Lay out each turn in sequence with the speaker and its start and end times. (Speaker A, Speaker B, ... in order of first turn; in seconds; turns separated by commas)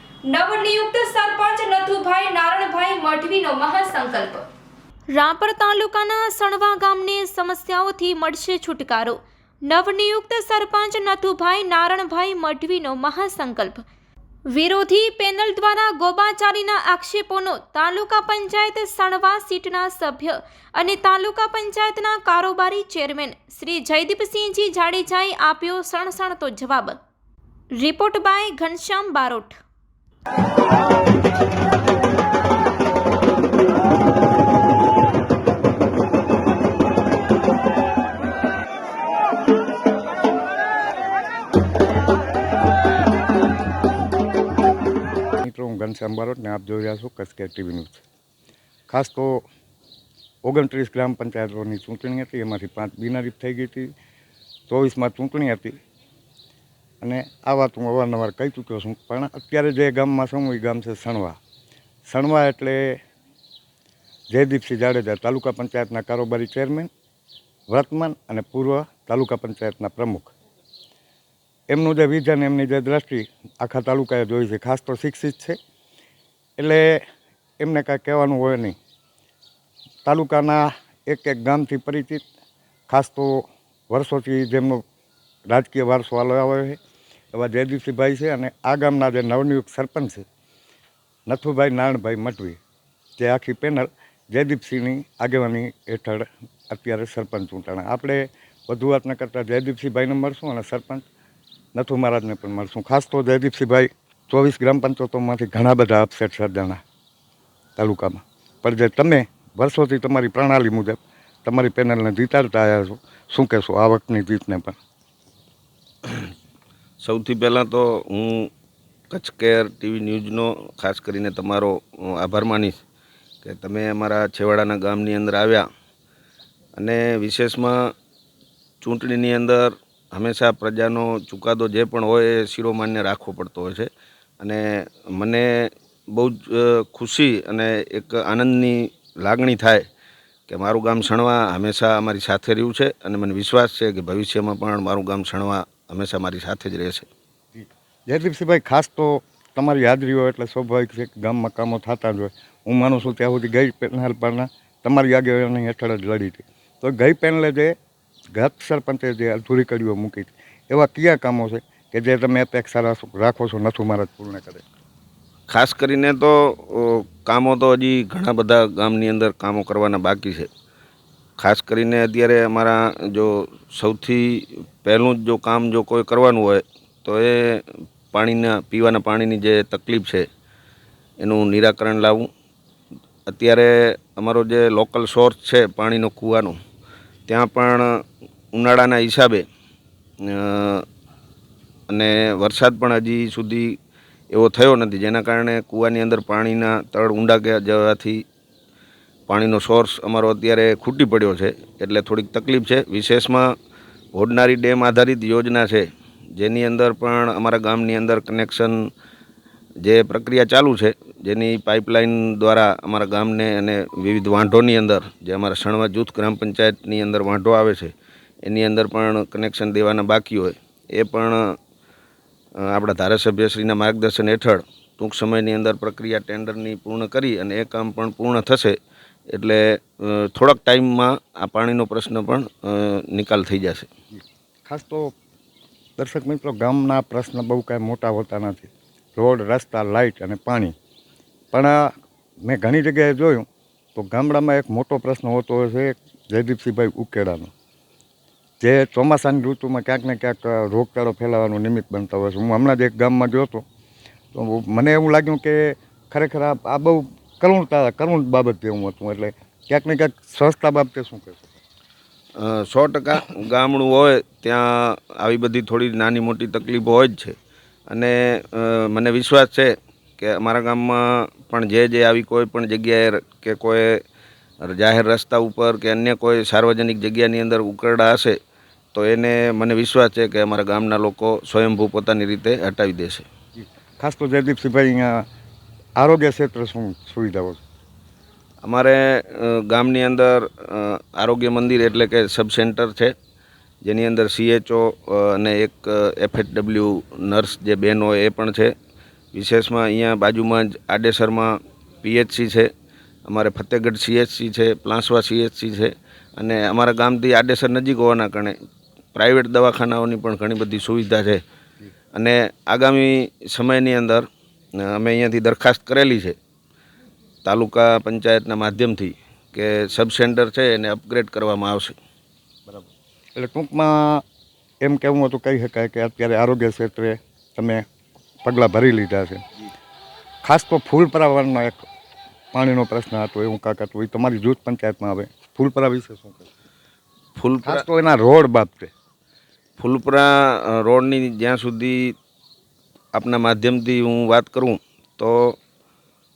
Speaker A: 0.3-4.4, Speaker A: 5.1-13.8, Speaker A: 14.5-27.0, Speaker A: 27.8-29.6, Speaker B: 45.4-48.0, Speaker B: 48.9-49.4, Speaker B: 50.4-53.9, Speaker B: 54.7-55.8, Speaker B: 57.0-61.4, Speaker B: 62.1-63.0, Speaker B: 64.3-66.9, Speaker B: 67.7-70.3, Speaker B: 71.7-75.6, Speaker B: 76.6-77.0, Speaker B: 77.6-78.8, Speaker B: 80.0-82.2, Speaker B: 82.9-84.8, Speaker B: 85.5-86.8, Speaker B: 87.3-90.2, Speaker B: 91.3-92.6, Speaker B: 93.2-101.1, Speaker B: 101.8-106.8, Speaker B: 107.8-114.8, Speaker C: 117.0-118.5, Speaker C: 119.1-122.8, Speaker C: 123.4-125.7, Speaker C: 126.8-127.9, Speaker C: 128.8-139.8, Speaker C: 140.5-147.1, Speaker B: 147.6-157.7, Speaker B: 158.3-164.6, Speaker C: 165.5-170.5, Speaker C: 171.4-180.3, Speaker C: 181.2-182.3, Speaker C: 183.3-186.6, Speaker C: 187.3-187.9, Speaker C: 188.5-189.4, Speaker C: 190.2-190.8, Speaker C: 191.9-193.8, Speaker C: 194.3-198.2, Speaker C: 199.3-203.5, Speaker C: 204.1-208.9, Speaker C: 209.8-217.9, Speaker C: 218.4-221.5, Speaker C: 222.6-228.8, Speaker C: 229.3-233.9, Speaker B: 234.2-235.1, Speaker B: 236.0-240.8, Speaker B: 241.5-241.9, Speaker B: 242.4-247.5, Speaker B: 248.6-253.6, Speaker B: 254.3-261.6, Speaker C: 262.4-267.4, Speaker C: 267.9-274.0, Speaker C: 274.6-278.4, Speaker C: 278.9-283.3, Speaker B: 283.6-285.2, Speaker B: 286.0-287.6, Speaker C: 288.6-293.1, Speaker C: 293.8-298.7, Speaker C: 299.3-302.7, Speaker C: 303.3-308.6, Speaker C: 309.1-311.4, Speaker C: 312.1-314.3, Speaker C: 314.8-316.4, Speaker C: 317.4-321.9, Speaker B: 323.4-324.2, Speaker B: 324.8-327.8, Speaker B: 328.4-329.4, Speaker B: 330.4-331.9, Speaker B: 332.5-336.5, Speaker C: 337.4-337.9, Speaker B: 337.6-338.9, Speaker C: 339.8-342.1, Speaker C: 343.1-345.6